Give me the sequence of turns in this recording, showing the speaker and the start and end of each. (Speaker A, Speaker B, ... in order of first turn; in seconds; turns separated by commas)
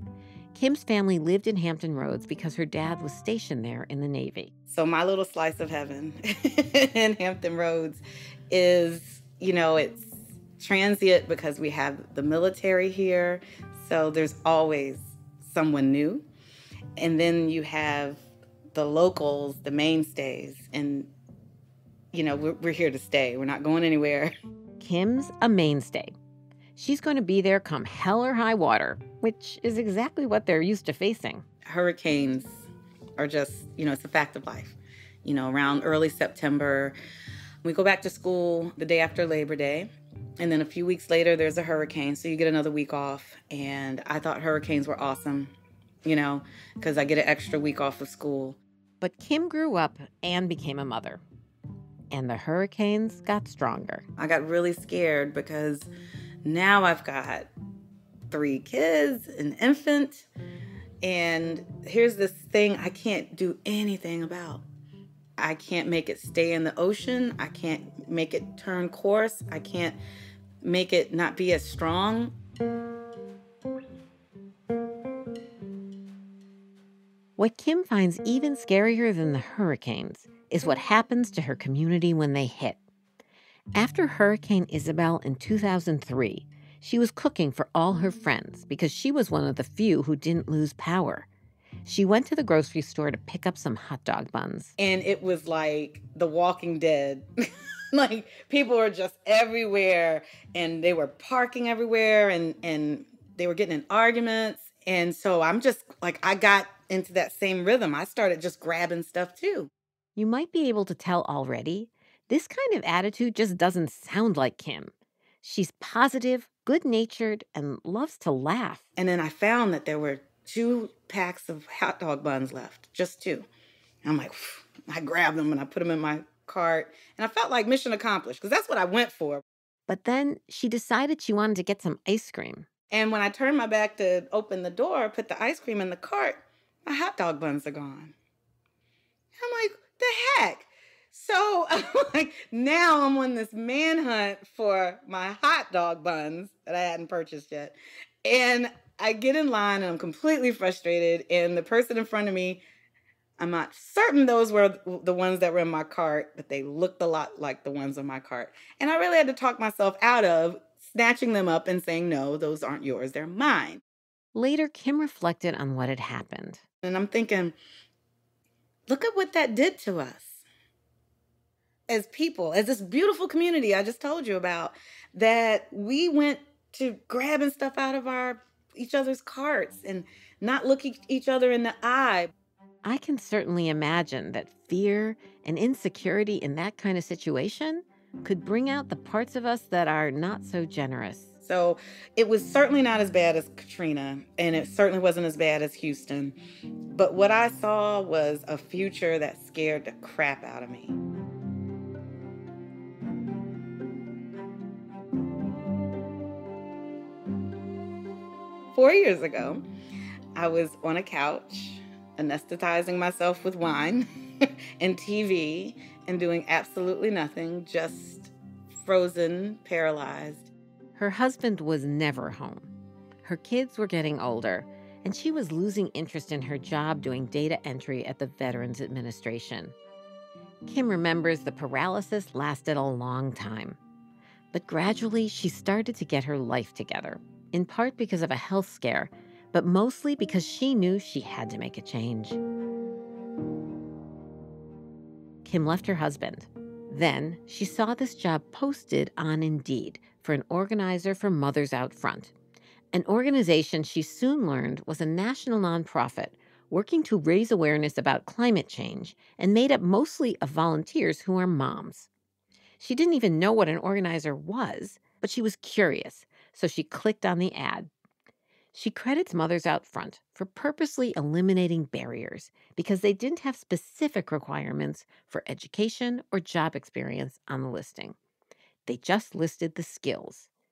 Speaker A: 0.6-4.5, Speaker B: 4.7-16.2, Speaker B: 17.0-18.2, Speaker B: 18.8-21.1, Speaker B: 22.1-24.3, Speaker A: 24.8-26.1, Speaker A: 26.8-31.4, Speaker B: 31.7-32.7, Speaker B: 33.2-37.0, Speaker B: 37.6-45.5, Speaker B: 46.0-48.6, Speaker A: 49.0-51.2, Speaker A: 52.1-54.1, Speaker B: 54.2-55.9, Speaker B: 56.5-57.5, Speaker B: 58.3-60.3, Speaker B: 61.0-64.6, Speaker B: 65.4-70.0, Speaker B: 70.6-72.3, Speaker A: 77.4-82.8, Speaker A: 83.8-91.3, Speaker A: 91.8-94.7, Speaker B: 94.8-97.3, Speaker B: 97.9-109.7, Speaker A: 110.2-114.9, Speaker A: 115.4-118.8, Speaker B: 119.0-123.5, Speaker B: 124.0-129.4, Speaker A: 129.9-132.7, Speaker B: 132.9-138.1, Speaker B: 139.4-152.6, Speaker B: 153.4-163.8, Speaker A: 164.3-166.6, Speaker B: 166.8-167.6, Speaker B: 168.9-170.4, Speaker B: 171.9-182.3, Speaker A: 182.8-191.3, Speaker B: 191.4-196.3, Speaker B: 196.9-201.0, Speaker B: 208.7-209.7, Speaker B: 210.3-214.1, Speaker B: 214.8-220.5, Speaker A: 220.9-222.7, Speaker A: 223.2-229.7, Speaker A: 230.7-233.8, Speaker A: 234.5-242.4, Speaker A: 245.4-252.3, Speaker A: 252.9-262.1, Speaker A: 262.8-267.9, Speaker A: 268.7-278.1, Speaker A: 278.9-280.5